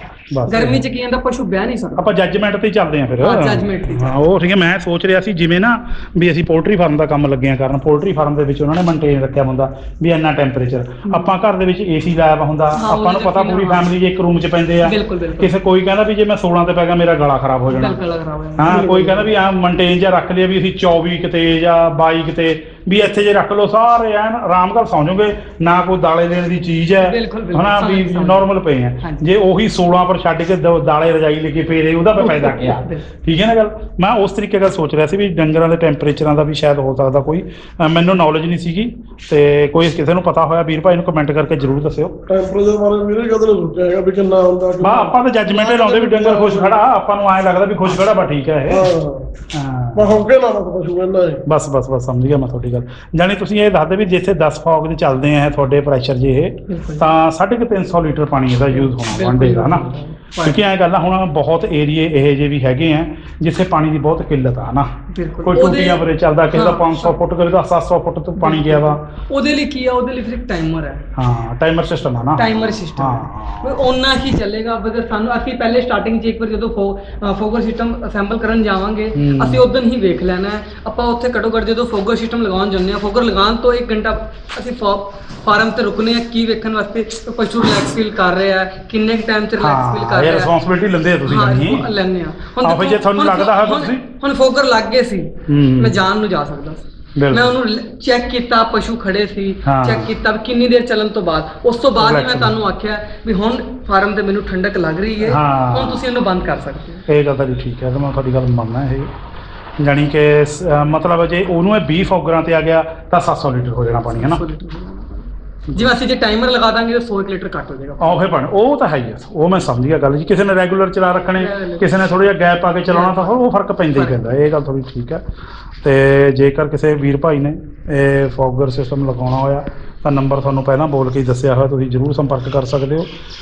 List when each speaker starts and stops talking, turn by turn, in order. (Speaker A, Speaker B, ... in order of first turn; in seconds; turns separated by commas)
Speaker A: 0.3-0.8, Speaker B: 0.5-2.1, Speaker A: 2.0-18.0, Speaker B: 3.2-4.1, Speaker B: 11.1-11.3, Speaker B: 12.8-13.9, Speaker B: 14.8-15.5, Speaker B: 17.7-18.8, Speaker A: 18.6-42.2, Speaker C: 18.6-19.3, Speaker B: 27.0-28.5, Speaker B: 29.0-29.3, Speaker B: 32.2-33.0, Speaker C: 42.3-46.8, Speaker A: 44.8-48.9, Speaker C: 48.7-49.3, Speaker A: 49.5-50.2, Speaker C: 50.0-51.4, Speaker A: 51.5-59.9, Speaker B: 56.7-57.1, Speaker B: 58.7-60.6, Speaker A: 60.4-64.9, Speaker B: 65.1-67.2, Speaker A: 65.5-69.0, Speaker B: 68.4-71.0, Speaker A: 71.2-73.8, Speaker B: 72.4-90.5, Speaker A: 79.2-79.6, Speaker A: 89.6-91.9, Speaker B: 91.3-107.0, Speaker A: 92.6-94.0, Speaker A: 95.5-96.0, Speaker A: 97.2-97.6, Speaker A: 99.7-100.1, Speaker A: 102.0-102.6, Speaker A: 105.2-106.0, Speaker A: 107.1-109.1, Speaker A: 109.8-114.4, Speaker B: 114.1-118.2, Speaker A: 118.0-125.2, Speaker B: 121.4-121.9, Speaker B: 122.9-123.4, Speaker B: 124.0-124.2, Speaker A: 125.8-133.1